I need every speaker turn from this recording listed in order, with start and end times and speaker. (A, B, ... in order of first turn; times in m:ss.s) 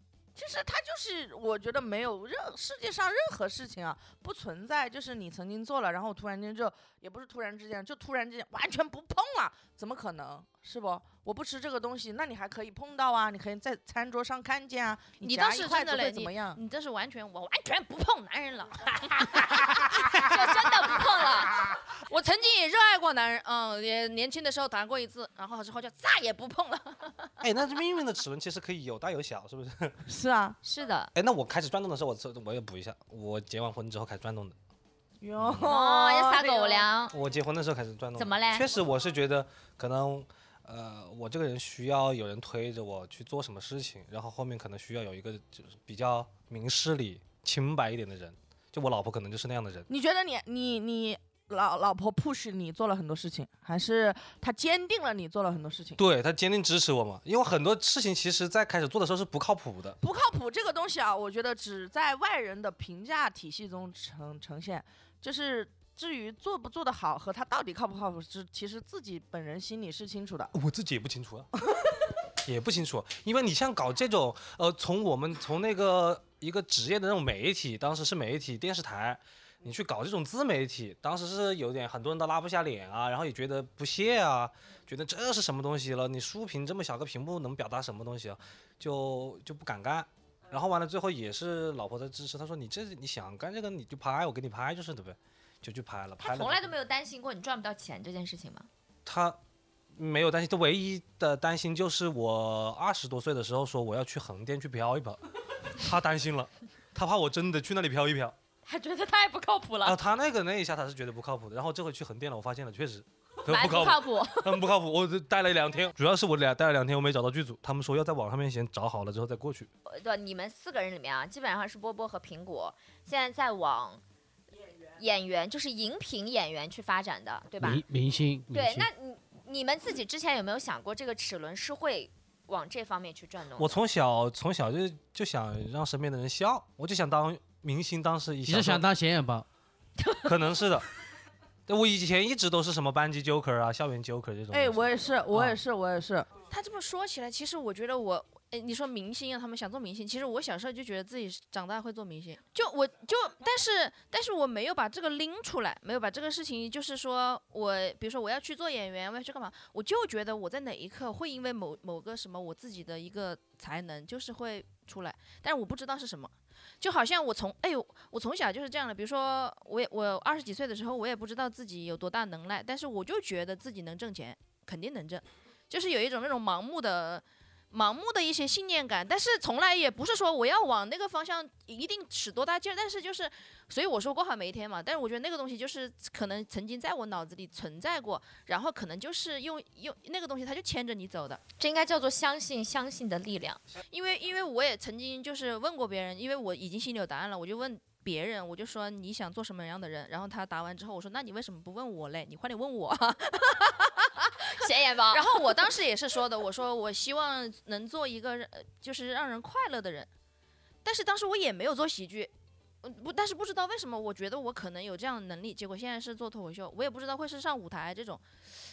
0:00.4-0:16.6 A
0:15.2-0:27.3 B
0:19.6-0:20.3 C
0:20.1-0:21.6 D
0:27.4-0:30.0 C
0:30.0-0:30.6 A
0:30.6-0:31.1 D
0:31.1-0:34.6 C
0:35.2-0:36.9 A
0:35.4-0:35.7 C
0:35.6-0:37.1 D
0:37.1-0:49.9 C
0:38.2-0:38.7 D
0:49.9-0:56.0 A
0:56.0-1:00.0 C
1:00.0-1:10.5 A
1:10.5-1:11.5 C
1:12.3-1:36.6 C
1:36.2-1:38.7 D
1:39.0-1:39.4 C
1:39.9-1:48.4 C
1:48.6-1:50.0 D
1:49.8-1:59.7 C
1:53.5-1:54.7 D
1:59.8-2:04.0 D
2:04.8-2:07.8 D
2:07.6-2:08.9 E
2:08.5-2:13.8 D
2:13.6-2:18.8 C
2:18.4-2:19.4 E
2:20.0-2:20.3 D
2:20.2-2:20.9 C
2:21.7-2:25.0 C
2:24.5-2:26.3 A
2:26.5-3:11.4 B
3:11.6-3:13.6 D
3:13.9-3:30.1 B
3:24.4-3:25.6 D
3:30.8-3:32.3 B
3:32.8-3:38.2 B